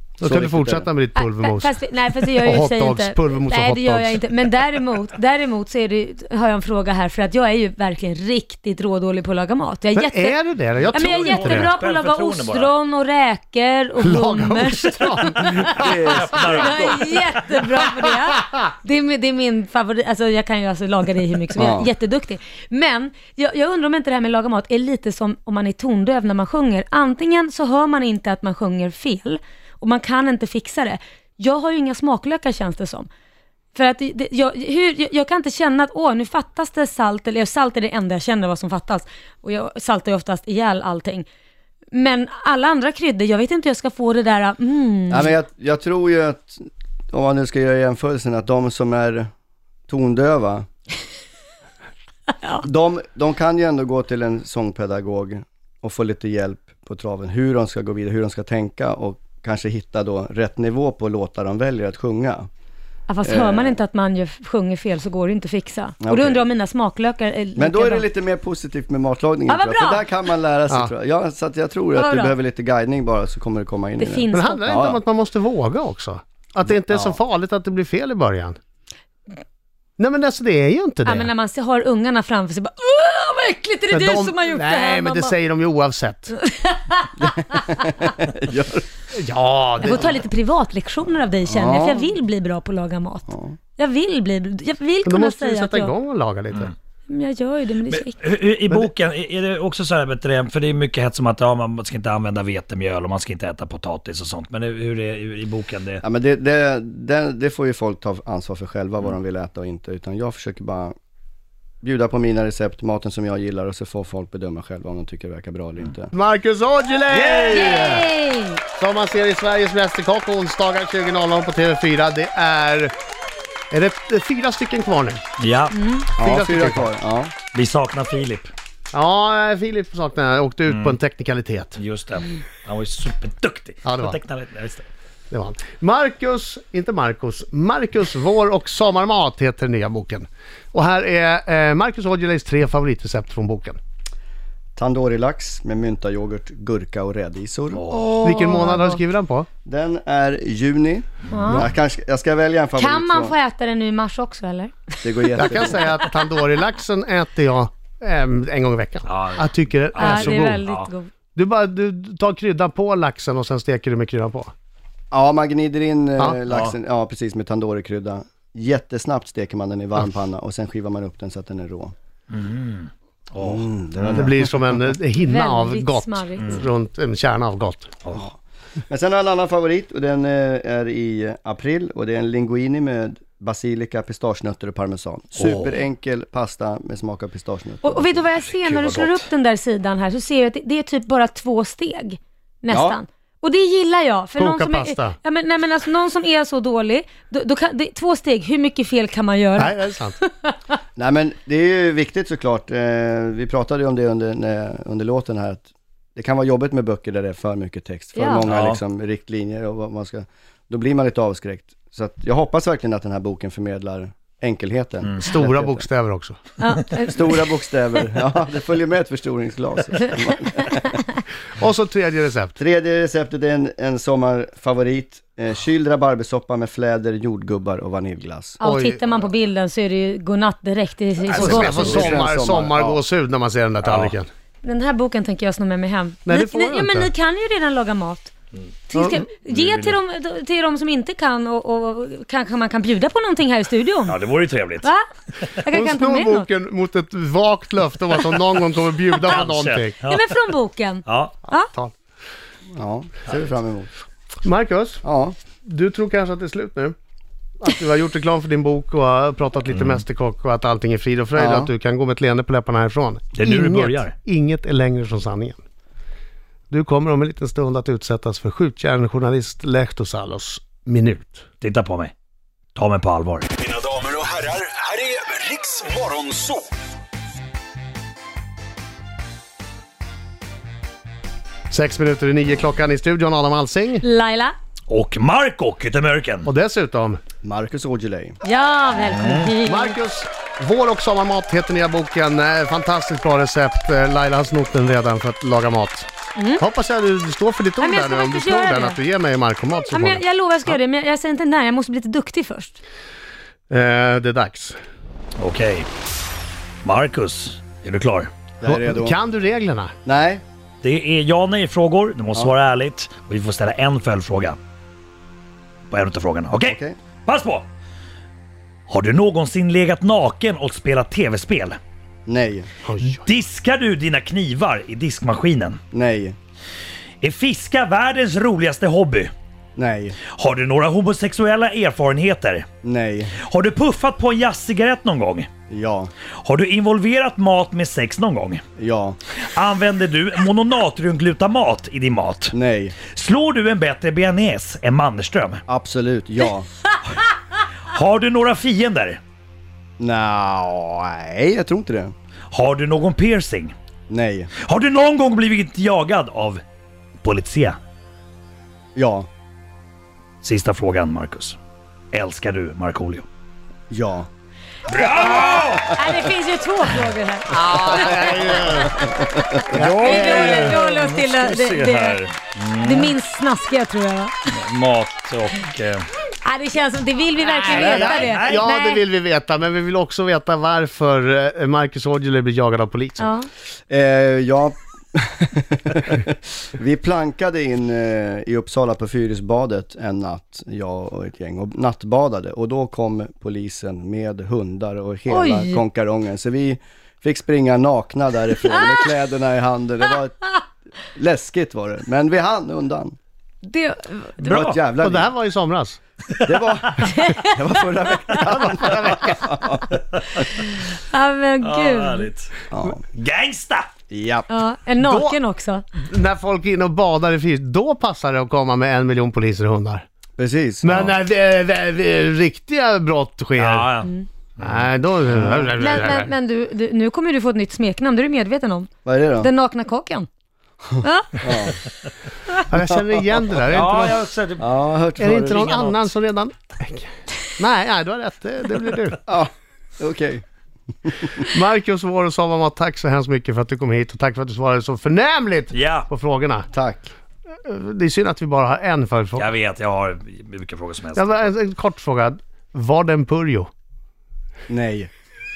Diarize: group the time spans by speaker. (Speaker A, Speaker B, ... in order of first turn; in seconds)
Speaker A: 0.2-1.8, 2.3-4.2, 9.9-11.7, 14.0-15.9, 74.3-78.6, 80.0-81.3, 83.9-86.3, 89.1-90.1, 95.0-96.7, 116.1-118.0, 118.8-122.9, 123.7-125.2, 126.2-126.9, 128.9-131.8, 133.8-134.2, 135.3-143.8, 148.2-149.5, 155.4-160.6, 161.3-164.5, 174.1-177.9, 194.4-195.2, 199.6-200.2, 215.2-216.4, 221.6-222.5, 228.6-229.0, 231.3-234.3, 236.2-237.1, 238.9-239.2, 245.7-249.9, 251.6-251.9, 254.4-255.0, 255.6-256.9, 257.6-265.6, 266.7-271.4, 281.7-284.0, 286.4-287.2, 289.6-300.8, 303.7-304.8, 308.6-309.9, 322.8-323.2, 367.5-369.1, 369.7-370.8, 377.7-383.3, 405.0-406.0, 408.5-409.3, 415.0-415.4, 416.1-420.0, 420.8-424.0, 424.6-426.3, 432.7-434.2, 435.2-439.2, 441.5-446.7, 447.6-449.4, 451.1-453.7
Speaker B: 0.2-0.9, 15.6-17.2, 21.6-21.9, 45.1-49.3, 49.9-50.6, 52.6-62.5, 63.2-63.8, 66.0-66.4, 67.5-75.0, 76.9-77.2, 87.2-88.9, 91.5-92.1, 93.3-93.6, 106.0-110.9, 111.8-116.1, 117.1-118.0, 126.2-127.3, 144.8-147.8, 149.6-153.3, 155.0-155.8, 165.1-171.9, 173.4-174.5, 178.9-188.3, 192.7-193.0, 200.9-215.9, 217.1-221.0, 222.6-228.6, 231.2-233.0, 252.7-253.9, 255.0-255.3, 261.4-261.7, 287.4-288.4, 308.6-309.2, 310.0-310.4, 316.6-317.0, 322.2-322.7, 325.9-326.4, 329.8-330.2, 332.8-333.4, 335.7-336.1, 338.8-339.2, 342.5-343.0, 345.7-346.7, 350.0-352.1, 354.1-354.5, 358.9-359.3, 363.9-364.3, 383.9-403.1, 404.4-405.3, 406.4-410.4, 412.7-413.0, 414.1-414.5, 420.4-421.2, 425.3-425.7, 429.0-429.5, 430.9-431.8, 434.6-436.0, 439.3-440.4, 441.0-441.4, 446.7-447.1, 454.7-455.1
Speaker C: 1.1-10.4, 10.9-15.9, 16.5-33.1, 33.7-41.3, 41.9-45.3, 63.1-68.0, 69.5-70.1, 71.9-72.3, 74.0-74.6, 81.0-85.3, 86.3-87.1, 89.8-95.9, 97.1-98.2, 117.5-118.6, 125.7-126.1, 147.9-149.0, 151.3-151.7, 152.8-156.0, 160.0-161.1, 175.2-176.6, 187.8-200.6, 208.2-208.4, 216.6-217.4, 228.6-232.2, 234.6-238.3, 238.9-244.2, 244.8-245.1, 245.6-246.5, 250.1-251.7, 284.0-284.5, 288.4-290.0, 296.4-296.6, 297.8-299.0, 299.9-302.8, 365.9-368.4, 370.0-372.2, 372.8-374.3, 376.4-379.0, 383.2-383.5, 395.3-395.8, 403.6-404.4, 407.0-407.5, 410.6-412.3, 414.5-415.8, 425.8-430.3, 431.0-431.7
Speaker D: 10.8-12.7, 16.1-17.0, 97.8-106.0, 125.4-125.7, 127.5-128.5, 130.7-131.0, 131.7-134.8, 147.7-148.1, 151.3-151.7, 159.1-160.9, 166.5-166.7, 172.3-174.3, 185.3-185.8, 188.6-189.2, 208.5-208.8, 233.8-234.2, 239.5-240.0, 244.1-244.9, 249.2-250.3, 251.0-251.3, 259.7-260.0, 263.4-264.1, 271.6-272.1, 272.7-273.5, 284.9-286.5, 289.1-289.5, 305.4-305.9, 306.8-308.3, 310.8-314.6, 315.9-317.7, 318.9-321.8, 323.0-325.8, 327.2-329.3, 330.3-332.6, 333.4-335.5, 336.4-338.6, 339.4-342.5, 343.1-345.6, 347.9-349.2, 352.5-353.7, 354.6-356.6, 357.2-357.8, 360.4-361.6, 362.1-363.2, 364.9-365.9, 367.9-368.6, 369.6-373.1, 374.5-376.0, 377.6-378.6, 404.4-404.8, 411.6-412.5, 413.1-413.9, 423.6-424.9, 433.7-434.7, 445.7-446.1, 449.4-451.5
Speaker E: 273.6-276.6